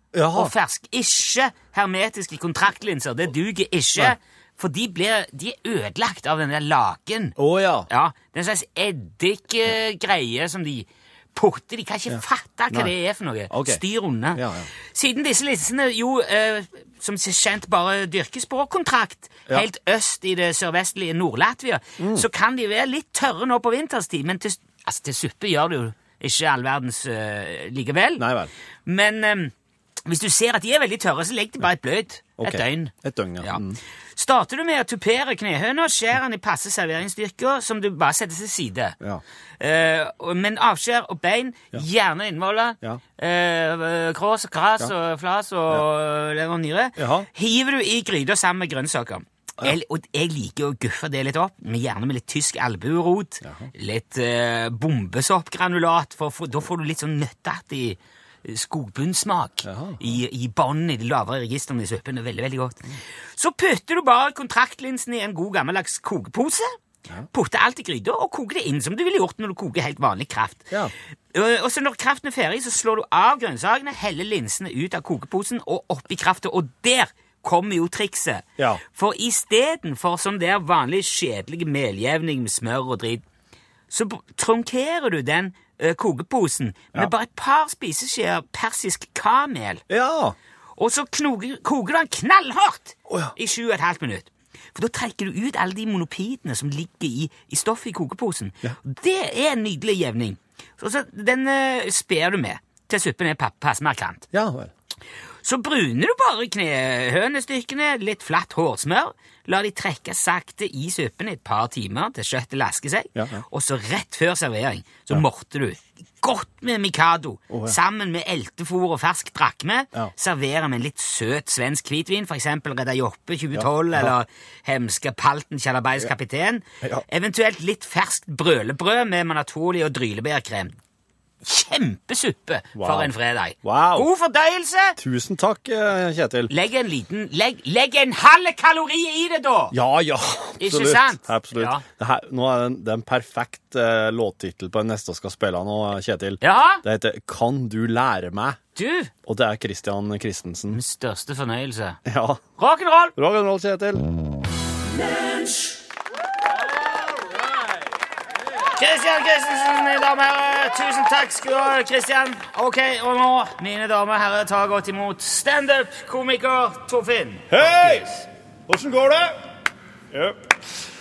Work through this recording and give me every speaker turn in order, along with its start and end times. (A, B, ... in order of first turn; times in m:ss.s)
0:00.1-0:00.5 A
0:00.3-0:07.4 B
0:07.4-0:07.9 A
0:07.9-0:28.2 B
0:12.1-0:12.9 A
0:13.5-0:13.8 A
0:14.3-0:14.7 A
0:22.0-0:22.2 A
0:28.2-0:28.5 A
0:28.8-0:29.5 B
0:30.0-0:33.6 B
0:32.4-0:33.8 A
0:34.2-0:39.0 B
0:39.6-1:06.7 B
0:47.0-0:47.3 A
0:53.4-0:53.7 A
0:59.6-1:00.0 A
1:07.3-1:10.7 B
1:11.3-1:23.2 B
1:23.9-1:29.8 B
1:29.9-1:30.4 A
1:30.8-1:44.2 B
1:33.1-1:33.3 A
1:44.3-1:44.7 A
1:45.4-2:10.8 B
1:53.1-1:53.4 A
1:57.5-1:57.8 A
2:03.5-2:04.1 A
2:11.4-2:15.0 B
2:12.8-2:14.1 A
2:15.0-2:16.5 A
2:16.5-2:19.7 B
2:19.7-2:28.6 A
2:20.6-2:21.8 B
2:26.4-2:26.8 B
2:28.8-2:29.1 B
2:29.2-2:30.8 A
2:30.7-2:32.0 B
2:32.0-2:32.4 A
2:32.6-2:33.1 B
2:33.2-2:34.0 A
2:37.1-2:37.6 A
2:38.8-2:48.2 B
2:47.5-2:48.1 A
2:48.7-2:49.3 A
2:50.1-2:50.4 A